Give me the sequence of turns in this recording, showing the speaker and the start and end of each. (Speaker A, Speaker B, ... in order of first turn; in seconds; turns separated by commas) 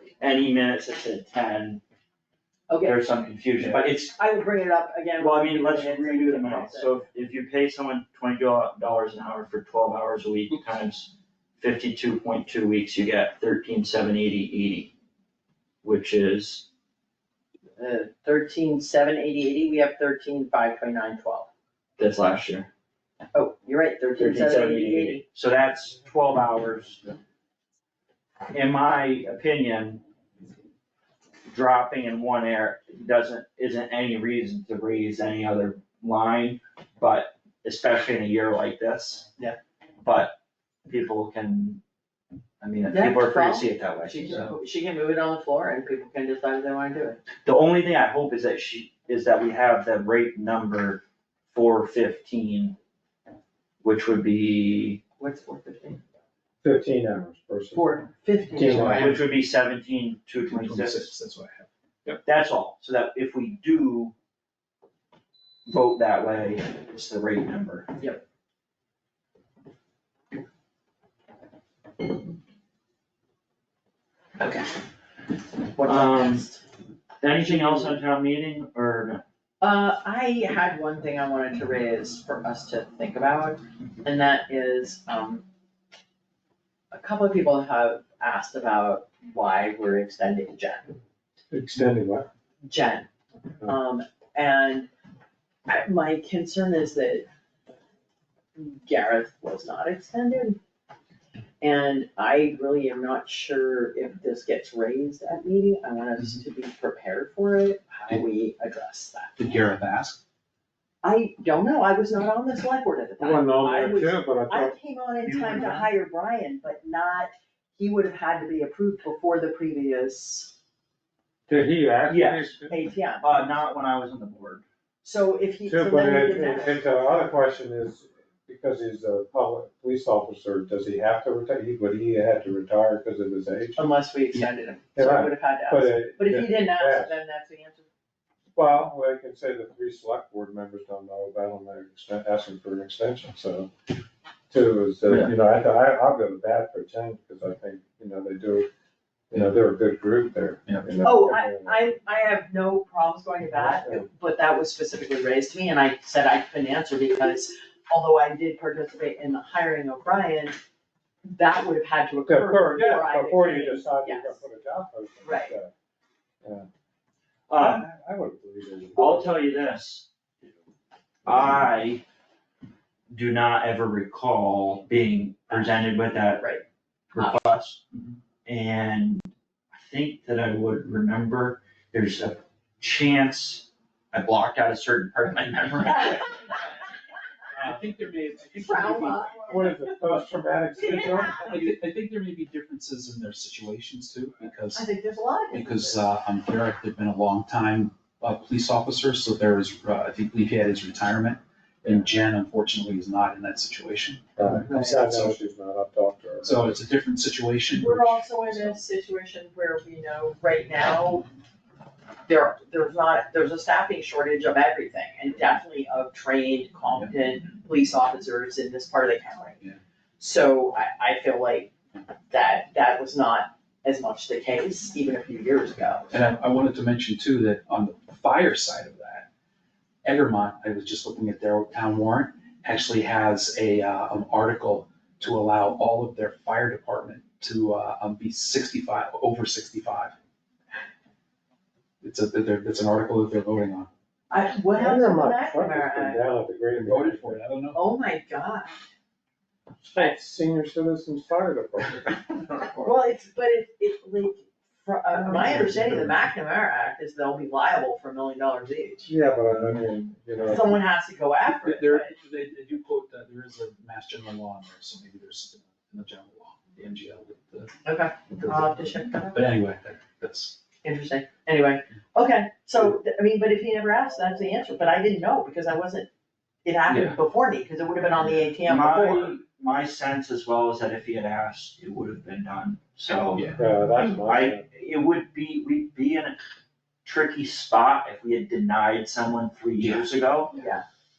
Speaker A: 0.2-1.8, Speaker B: 2.7-3.0, Speaker A: 2.8-4.1, Speaker B: 4.0-7.0, Speaker A: 5.2-14.9, Speaker A: 15.8-16.7, Speaker B: 17.8-21.5, Speaker A: 22.0-22.7, Speaker B: 23.3-25.2, Speaker A: 24.2-27.1, Speaker A: 28.5-30.0, Speaker A: 31.5-39.3, Speaker A: 40.0-40.4, Speaker A: 40.9-41.8, Speaker A: 42.6-44.5, Speaker B: 42.9-47.2, Speaker A: 47.4-52.8, Speaker A: 53.8-55.0, Speaker B: 55.2-56.0, Speaker C: 56.6-57.9, Speaker B: 57.7-59.2, Speaker C: 58.5-59.1, Speaker A: 58.7-61.1, Speaker D: 58.8-59.2, Speaker D: 60.5-62.2, Speaker A: 62.2-64.1, Speaker A: 65.7-67.9, Speaker B: 68.0-68.2, Speaker B: 75.8-76.6, Speaker A: 75.8-76.5, Speaker A: 77.2-79.2, Speaker B: 77.3-78.0, Speaker B: 79.6-85.5, Speaker B: 86.9-91.0, Speaker C: 91.5-92.3, Speaker B: 92.6-93.1, Speaker B: 93.6-94.9, Speaker B: 95.7-97.3, Speaker B: 98.6-100.6, Speaker B: 101.6-109.4, Speaker D: 109.4-110.2, Speaker B: 111.0-120.5, Speaker C: 113.2-114.8, Speaker A: 115.2-115.9, Speaker C: 121.5-122.9, Speaker A: 122.1-122.6, Speaker B: 122.7-123.5, Speaker A: 123.2-124.6, Speaker B: 125.0-126.8, Speaker C: 125.7-133.8, Speaker B: 133.8-137.9, Speaker C: 135.0-137.2, Speaker C: 138.6-143.7, Speaker C: 144.5-148.7, Speaker A: 145.1-145.3, Speaker C: 149.3-151.8, Speaker B: 151.0-160.6, Speaker C: 153.5-154.1, Speaker B: 161.3-164.4, Speaker C: 162.2-165.7, Speaker B: 165.2-165.6, Speaker C: 166.4-166.7, Speaker A: 167.5-167.9, Speaker C: 167.6-169.4, Speaker A: 169.0-170.1, Speaker A: 171.2-172.0, Speaker A: 173.1-176.5, Speaker A: 177.1-177.8, Speaker A: 178.4-186.6, Speaker D: 187.5-189.6, Speaker B: 188.6-189.8, Speaker C: 189.5-191.5, Speaker B: 190.8-191.5, Speaker D: 190.9-194.9, Speaker B: 194.7-196.1, Speaker D: 195.5-204.3, Speaker C: 204.4-206.8, Speaker B: 204.4-205.0, Speaker D: 205.0-205.3, Speaker D: 206.4-208.8, Speaker B: 207.7-211.3, Speaker B: 212.3-219.6, Speaker B: 220.2-221.7, Speaker B: 222.3-226.1, Speaker D: 226.1-229.3, Speaker D: 230.0-240.1, Speaker D: 242.0-243.9, Speaker B: 244.3-246.3, Speaker C: 244.8-247.4, Speaker D: 246.8-247.8, Speaker B: 247.7-248.8, Speaker C: 249.8-252.9, Speaker B: 252.8-259.1, Speaker C: 255.2-255.7, Speaker D: 255.5-256.2, Speaker C: 259.1-260.8, Speaker B: 260.4-262.1, Speaker D: 261.4-267.8, Speaker B: 267.9-269.4, Speaker D: 268.3-270.6, Speaker B: 270.8-276.1, Speaker B: 276.6-279.3, Speaker D: 276.9-277.2, Speaker A: 278.6-283.5, Speaker D: 283.3-283.7, Speaker C: 283.6-284.6, Speaker A: 284.2-286.4, Speaker A: 287.1-290.5, Speaker D: 289.8-290.1, Speaker B: 290.5-290.8